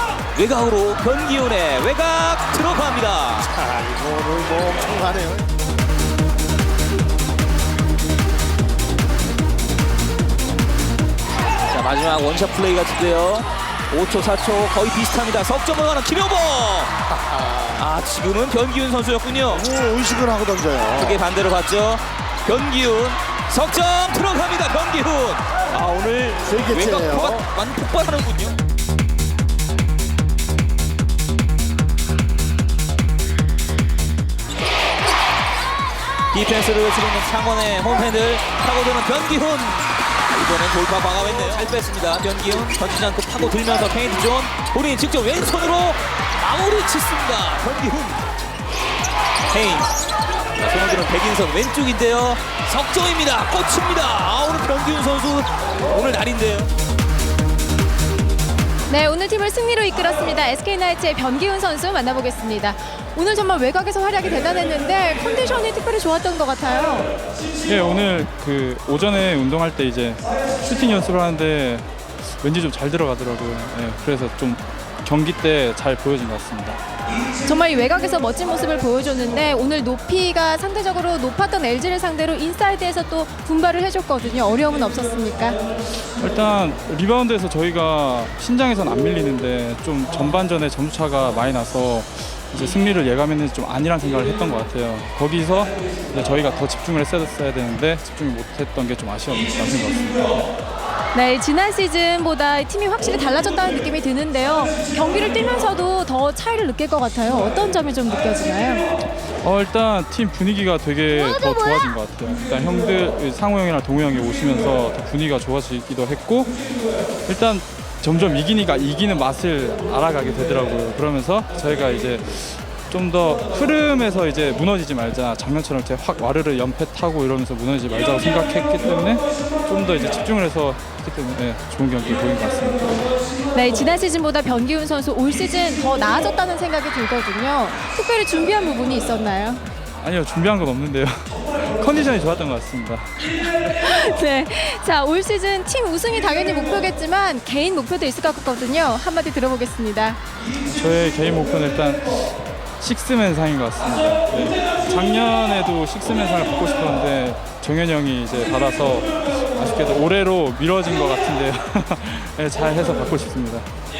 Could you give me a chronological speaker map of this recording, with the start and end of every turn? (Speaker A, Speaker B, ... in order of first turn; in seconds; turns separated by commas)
Speaker A: 0.3-3.5, Speaker B: 3.6-5.4, Speaker A: 11.7-17.0, Speaker A: 17.6-19.7, Speaker B: 19.5-21.2, Speaker A: 20.9-28.6, Speaker B: 26.4-27.4, Speaker A: 36.3-48.2, Speaker A: 49.5-49.9, Speaker A: 50.6-56.7, Speaker C: 58.9-67.1, Speaker D: 67.6-76.8, Speaker C: 77.4-85.6, Speaker D: 86.2-100.5, Speaker C: 101.1-108.8, Speaker D: 109.4-133.1, Speaker C: 111.1-112.0, Speaker C: 133.5-139.6, Speaker D: 140.0-143.6, Speaker C: 143.6-150.2, Speaker D: 150.6-163.7